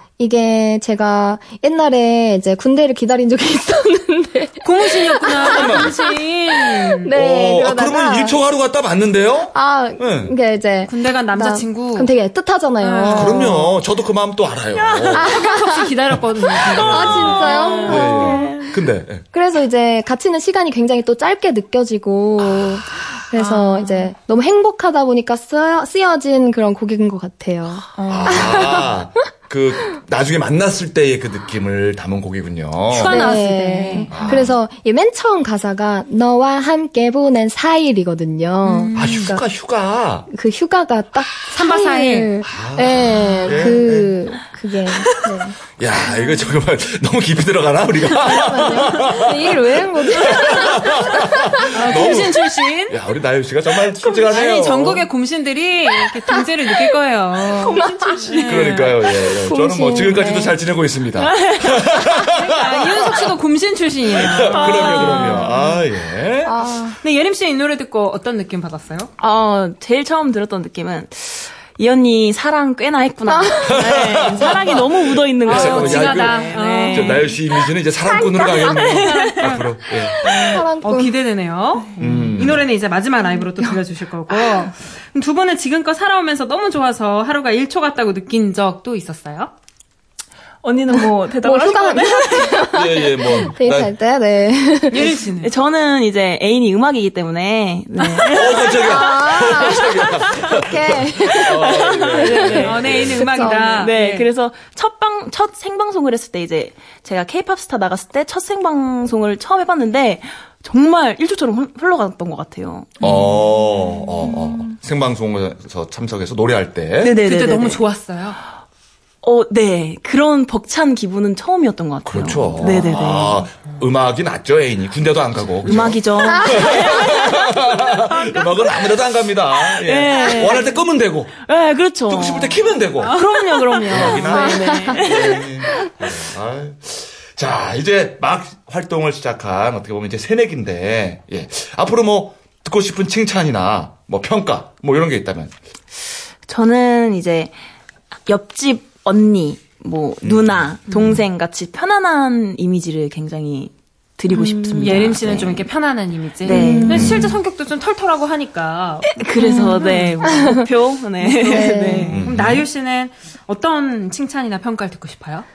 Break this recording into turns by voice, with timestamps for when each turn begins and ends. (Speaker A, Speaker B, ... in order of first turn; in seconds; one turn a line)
Speaker A: 0.2-6.0
Speaker B: 4.6-7.1
Speaker C: 5.4-5.9
Speaker A: 6.6-8.4
Speaker C: 7.1-10.3
Speaker A: 9.5-13.8
Speaker B: 10.8-12.1
Speaker B: 12.8-13.5
Speaker C: 13.1-15.4
Speaker D: 14.8-15.2
Speaker A: 15.1-15.9
Speaker B: 15.2-18.1
Speaker C: 16.1-19.2
Speaker A: 16.7-18.5
Speaker D: 16.8-18.8
Speaker A: 19.3-28.9
Speaker C: 22.4-22.7
Speaker B: 23.3-24.1
Speaker B: 28.0-28.8
Speaker C: 28.1-33.4
Speaker B: 32.9-34.4
Speaker A: 33.0-39.4
Speaker C: 34.1-34.5
Speaker B: 38.6-39.3
Speaker C: 38.9-40.3
Speaker A: 40.3-45.6
Speaker B: 41.5-42.3
Speaker C: 42.4-44.1
Speaker C: 45.8-55.1
Speaker A: 48.1-52.2
Speaker B: 51.7-53.0
Speaker B: 54.2-59.0
Speaker A: 57.4-58.2
Speaker D: 57.5-60.5
Speaker C: 58.4-63.3
Speaker A: 59.6-60.5
Speaker D: 61.1-61.9
Speaker B: 62.2-65.5
Speaker C: 64.1-66.6
Speaker D: 64.5-65.5
Speaker A: 66.4-67.0
Speaker B: 67.0-69.1
Speaker D: 69.2-77.5
Speaker A: 73.3-73.8
Speaker C: 73.7-80.2
Speaker B: 75.5-77.3
Speaker A: 78.1-78.8
Speaker D: 78.4-79.4
Speaker B: 78.8-89.5
Speaker A: 80.1-81.1
Speaker C: 82.0-82.7
Speaker A: 83.3-83.8
Speaker A: 84.3-84.7
Speaker D: 90.6-92.7
Speaker A: 91.4-95.2
Speaker C: 92.7-93.9
Speaker B: 94.9-95.5
Speaker D: 95.4-100.3
Speaker B: 98.0-98.3
Speaker C: 98.3-103.3
Speaker A: 98.5-103.9
Speaker D: 101.4-113.2
Speaker B: 102.3-104.3
Speaker C: 113.0-117.2
Speaker D: 117.0-117.8
Speaker B: 117.2-118.4
Speaker D: 119.2-123.4
Speaker C: 122.0-131.4
Speaker B: 122.6-122.9
Speaker D: 125.6-128.9
Speaker A: 126.2-126.8
Speaker D: 129.6-130.8
Speaker D: 131.4-135.5
Speaker C: 132.1-133.2
Speaker B: 133.0-134.7
Speaker C: 133.8-145.5
Speaker A: 134.3-135.0
Speaker D: 146.4-147.5
Speaker D: 148.3-155.7
Speaker C: 150.2-151.2
Speaker A: 154.3-155.1
Speaker B: 154.8-160.6
Speaker D: 156.4-157.1
Speaker A: 156.4-157.2
Speaker C: 156.9-157.4
Speaker D: 159.1-162.2
Speaker A: 159.4-159.7
Speaker A: 160.2-160.6
Speaker B: 161.2-165.4
Speaker A: 161.3-162.2
Speaker C: 162.1-162.7